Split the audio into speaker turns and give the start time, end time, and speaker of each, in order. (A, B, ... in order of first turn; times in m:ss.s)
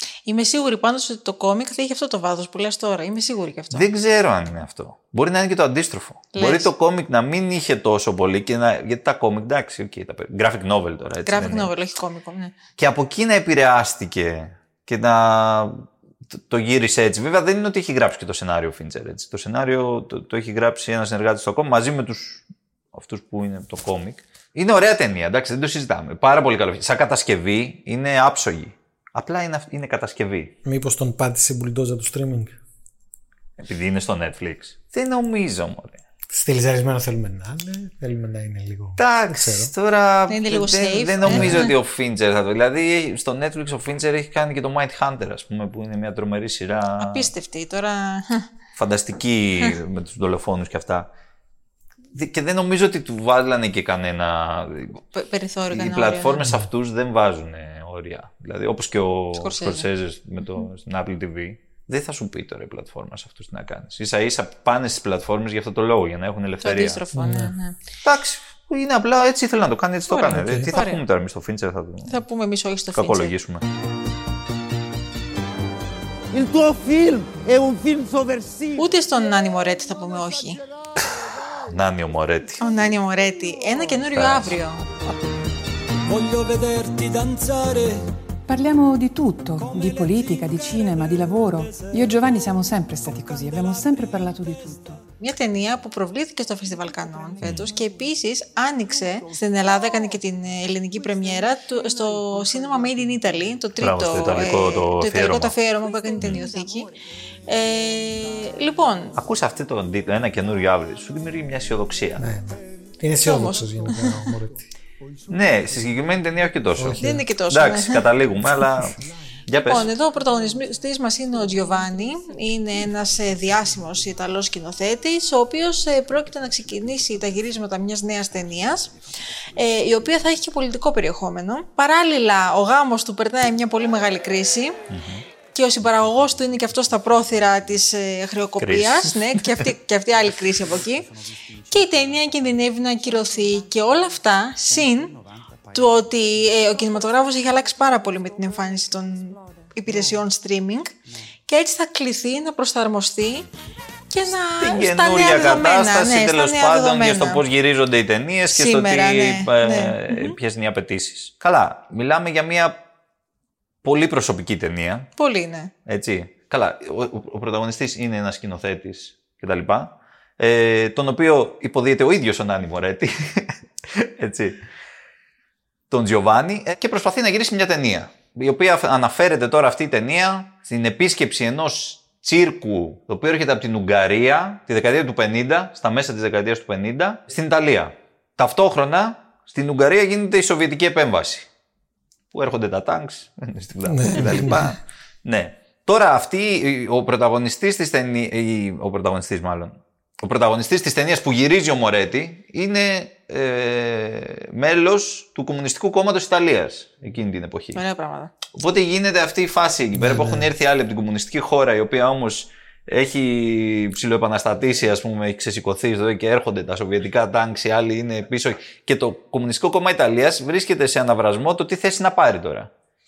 0:00.3-0:03.9 A
0:03.7-0:11.7 B
0:06.4-0:06.7 A
0:11.3-0:12.5 A
0:12.8-0:30.5 B
0:30.6-0:32.6 C
0:33.6-0:36.0 B
0:36.3-0:39.7 C
0:39.0-0:47.3 B
0:40.3-0:41.7 A
0:41.2-0:41.7 C
0:47.0-0:48.5 A
0:48.8-0:51.1 B
0:52.2-0:55.0 B
0:55.1-0:56.5 A
0:55.7-1:07.0 B
0:59.4-0:59.9 A
1:06.6-1:07.8 A
1:07.2-1:07.5 C
1:08.0-1:12.2 B
1:10.1-1:11.0 A
1:10.3-1:10.7 C
1:12.1-1:13.3 A
1:13.0-1:13.6 B
1:16.3-1:18.8 D
1:18.8-1:20.6 A
1:21.5-1:22.6 B
1:22.6-1:24.9 A
1:24.1-1:24.6 B
1:26.2-1:27.9 D
1:28.5-1:35.0 E
1:35.2-1:46.9 A
1:37.4-1:37.7 B
1:43.8-1:45.6 B
1:47.5-1:49.1 A
1:49.2-1:52.2 B
1:52.2-1:54.7 C
1:53.2-1:54.0 A
1:55.3-1:59.0 B
1:56.8-1:57.2 C
1:57.0-1:58.1 A
1:59.5-1:59.9 B
1:59.6-2:08.9 A
2:09.6-2:14.8 A
2:14.9-2:15.2 B
2:15.5-2:21.1 A
2:18.6-2:19.1 B
2:21.7-2:25.2 A
2:25.7-2:30.9 A
2:31.5-2:33.5 A
2:34.1-2:37.4 A
2:34.6-2:42.8 B
2:38.5-2:40.3 A
2:43.8-2:45.1 B
2:45.2-2:45.7 A
2:45.9-2:54.6 B
2:55.9-3:11.5 B
3:12.3-3:27.8 B
3:13.8-3:14.7 C
3:27.8-3:28.3 A
3:28.5-3:42.7 B
3:30.0-3:30.5 C